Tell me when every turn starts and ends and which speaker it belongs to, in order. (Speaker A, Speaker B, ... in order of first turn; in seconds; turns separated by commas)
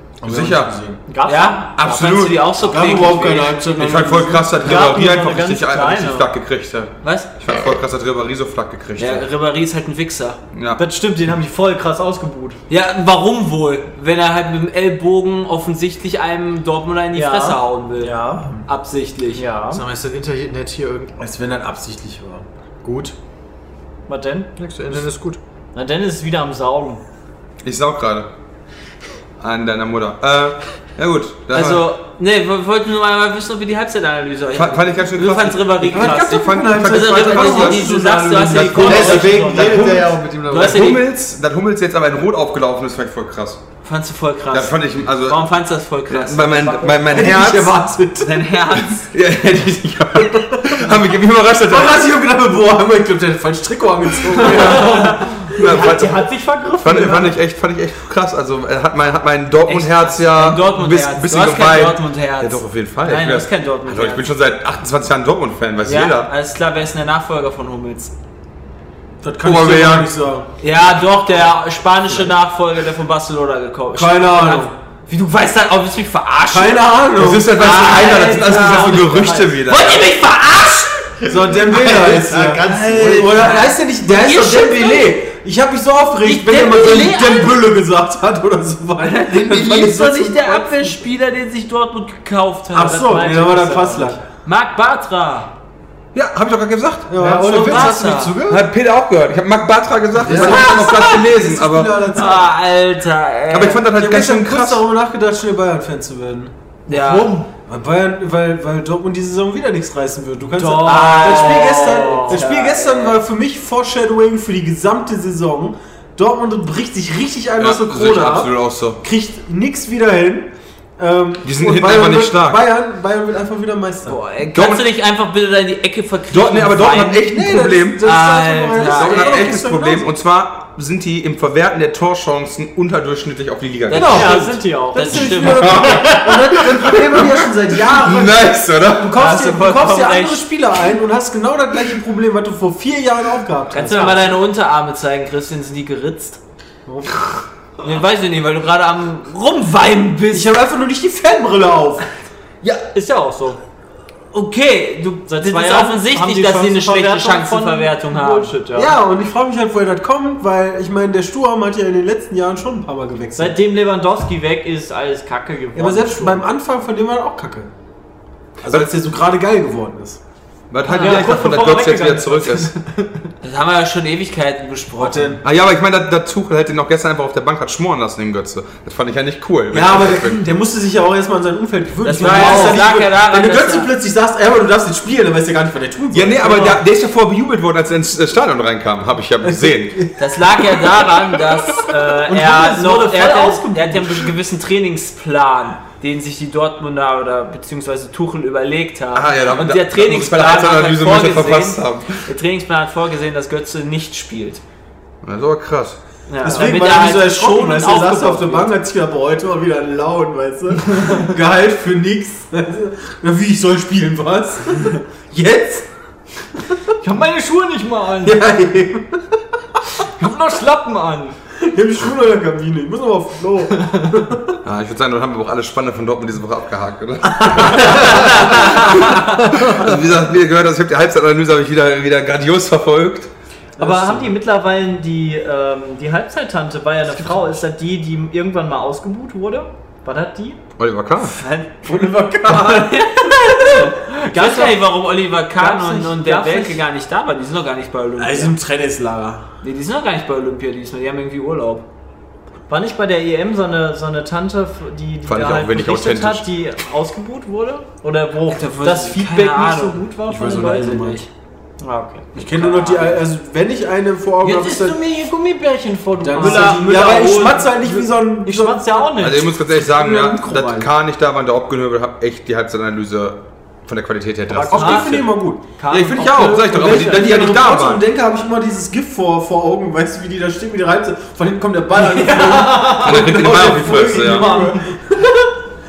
Speaker A: 0.2-0.8, Speaker B: 0.2-1.0, Speaker C: 1.1-2.0, Speaker D: 1.3-3.7, Speaker A: 1.8-2.5, Speaker B: 2.6-4.8, Speaker A: 3.7-9.3, Speaker C: 4.6-6.3, Speaker D: 7.0-7.3, Speaker D: 9.0-10.4, Speaker A: 10.5-10.8, Speaker C: 10.8-12.6, Speaker D: 12.7-19.4, Speaker C: 17.1-18.5, Speaker C: 19.3-19.8, Speaker E: 19.7-21.2, Speaker B: 21.2-22.4, Speaker E: 22.8-23.2, Speaker C: 24.1-24.5, Speaker E: 24.6-25.4, Speaker C: 25.7-27.0, Speaker A: 27.6-28.3, Speaker A: 29.4-31.8, Speaker D: 31.5-41.0, Speaker A: 34.5-38.0, Speaker B: 35.9-39.3, Speaker A: 38.5-43.6, Speaker E: 38.8-41.0, Speaker C: 38.9-39.8, Speaker D: 43.8-47.1, Speaker A: 44.5-45.4, Speaker A: 46.1-47.8, Speaker B: 47.0-48.5, Speaker D: 48.2-49.1, Speaker A: 49.1-52.0, Speaker B: 50.4-50.8, Speaker B: 51.7-55.9, Speaker A: 54.4-66.3, Speaker C: 54.4-57.3, Speaker D: 59.7-64.3, Speaker D: 65.8-68.1, Speaker B: 69.2-70.5, Speaker A: 69.4-70.1, Speaker D: 70.6-81.1, Speaker B: 74.0-74.7, Speaker B: 76.5-77.5, Speaker A: 77.2-80.1, Speaker C: 78.3-79.5, Speaker E: 81.2-83.6, Speaker B: 81.3-91.0, Speaker D: 82.7-85.2, Speaker D: 86.2-87.6, Speaker D: 89.0-93.0, Speaker B: 92.7-94.2, Speaker C: 92.8-94.2, Speaker D: 94.4-95.5, Speaker A: 96.1-97.2, Speaker B: 97.1-98.0, Speaker E: 97.2-98.7, Speaker D: 97.4-98.4, Speaker A: 98.5-102.0, Speaker E: 100.2-100.6, Speaker B: 100.2-102.5, Speaker D: 100.4-101.2, Speaker D: 102.1-103.9, Speaker A: 103.5-104.8, Speaker B: 103.9-106.5, Speaker C: 106.9-107.5, Speaker D: 106.9-107.4, Speaker B: 107.7-124.2, Speaker C: 110.5-112.4, Speaker D: 110.8-113.2, Speaker A: 117.6-119.0, Speaker A: 121.4-122.6, Speaker D: 124.0-127.3, Speaker A: 124.5-124.8, Speaker A: 126.3-128.1, Speaker B: 127.3-130.1, Speaker D: 128.0-129.5, Speaker A: 128.8-134.3, Speaker D: 133.9-136.0, Speaker B: 133.9-144.3, Speaker C: 134.0-136.1, Speaker A: 135.6-139.2, Speaker D: 139.2-140.4, Speaker C: 143.7-144.2, Speaker D: 143.7-146.4, Speaker B: 146.9-147.4, Speaker D: 147.8-150.5, Speaker B: 150.3-152.1, Speaker C: 152.6-153.6, Speaker D: 154.3-158.6, Speaker C: 155.3-158.9, Speaker B: 158.7-163.6, Speaker C: 163.3-166.4, Speaker B: 165.7-167.7, Speaker B: 168.6-170.2, Speaker A: 168.7-168.9, Speaker A: 170.7-172.7, Speaker C: 170.9-173.3, Speaker D: 173.4-175.4, Speaker B: 175.0-175.4, Speaker A: 175.4-180.4, Speaker B: 179.7-186.8, Speaker D: 182.0-183.9, Speaker C: 182.2-182.8, Speaker A: 186.1-190.1, Speaker B: 189.4-190.2, Speaker D: 190.2-204.6, Speaker C: 192.3-194.2, Speaker A: 199.1-202.2, Speaker A: 205.2-206.0, Speaker D: 206.3-208.7, Speaker B: 206.4-215.9, Speaker C: 206.4-206.8, Speaker C: 217.0-218.5, Speaker B: 218.2-219.2, Speaker C: 220.0-221.4, Speaker B: 221.6-224.6, Speaker A: 224.6-233.3, Speaker C: 227.6-228.2, Speaker D: 227.9-229.1, Speaker B: 233.8-234.3, Speaker C: 233.8-240.6, Speaker A: 240.8-241.4, Speaker D: 241.2-248.6, Speaker B: 241.8-243.3, Speaker C: 244.3-244.8, Speaker C: 245.6-246.8, Speaker B: 248.2-249.5, Speaker D: 249.6-251.9, Speaker C: 252.7-261.2, Speaker A: 255.3-256.4, Speaker D: 258.5-261.3, Speaker B: 260.3-261.2, Speaker C: 261.8-263.1, Speaker B: 262.3-265.0, Speaker D: 262.6-263.1, Speaker C: 264.4-269.6, Speaker B: 266.2-269.1, Speaker D: 266.3-267.7, Speaker A: 269.1-275.3, Speaker B: 269.7-270.9, Speaker C: 274.5-275.2, Speaker B: 274.6-275.6, Speaker C: 275.7-277.1, Speaker A: 275.9-278.0, Speaker B: 276.2-285.4, Speaker C: 281.9-284.8, Speaker A: 282.9-284.6